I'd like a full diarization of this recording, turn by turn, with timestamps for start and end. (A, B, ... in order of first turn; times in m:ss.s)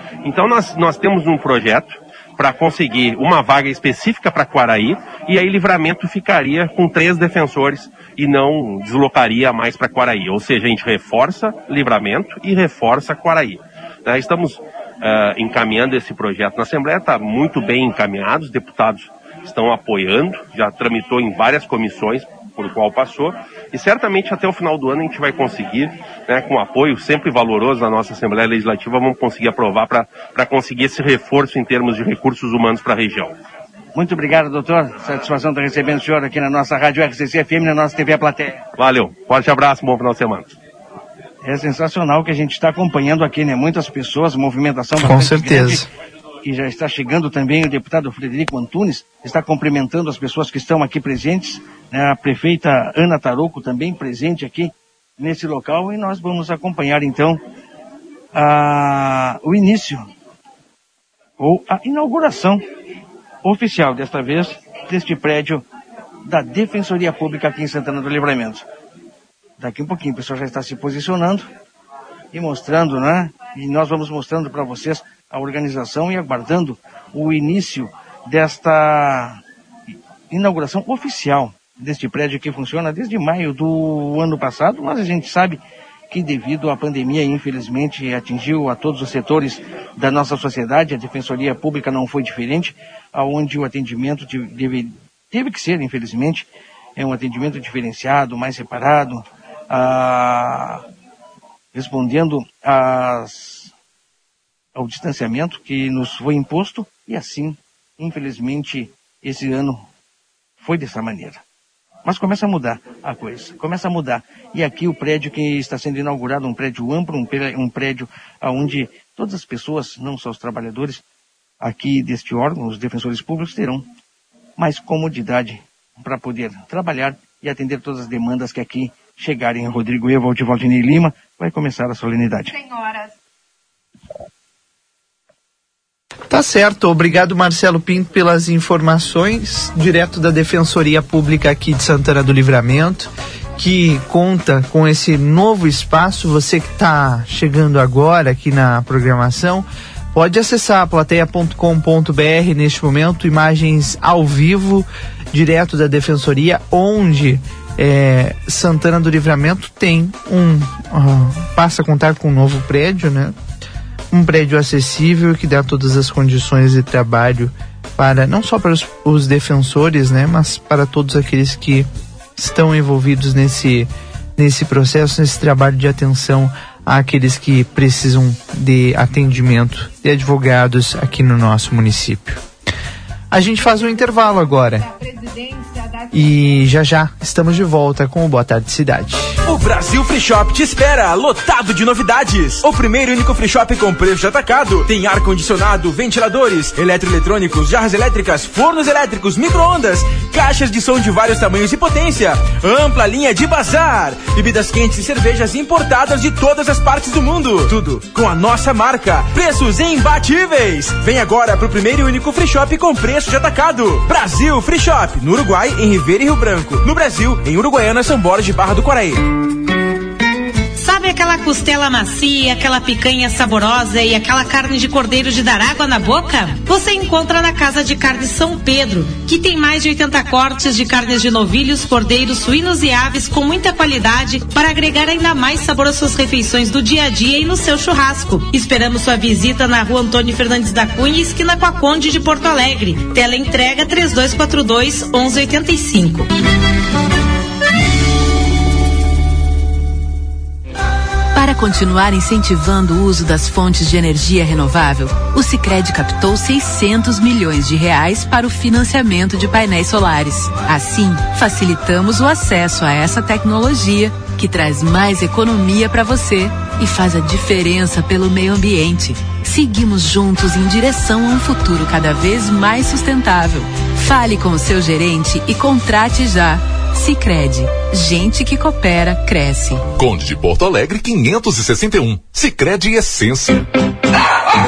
0:00.2-0:33.3 A
0:34.0-0:38.6 B
0:38.8-0:40.5 A
0:41.4-0:45.8 B
0:45.0-0:45.9 C
0:46.4-0:57.4 B
0:58.3-1:00.1 B
1:01.4-1:02.6 B
1:03.4-1:05.6 B
1:06.3-1:08.6 B
1:09.6-1:11.5 B
1:12.3-1:19.4 B
1:20.3-1:40.8 B
1:41.7-1:43.7 B
1:44.8-1:49.9 B
1:50.6-1:51.4 B
1:52.0-2:01.0 B
2:01.6-2:03.9 B
2:04.6-2:12.5 B
2:16.3-2:43.3 C
2:44.1-3:02.4 C
3:03.3-3:04.9 C
3:06.1-3:09.4 C
3:09.4-3:39.2 D
3:40.8-3:57.5 E
3:58.2-4:03.1 E
4:03.9-4:05.8 E
4:11.3-4:39.8 F
4:40.0-4:43.6 G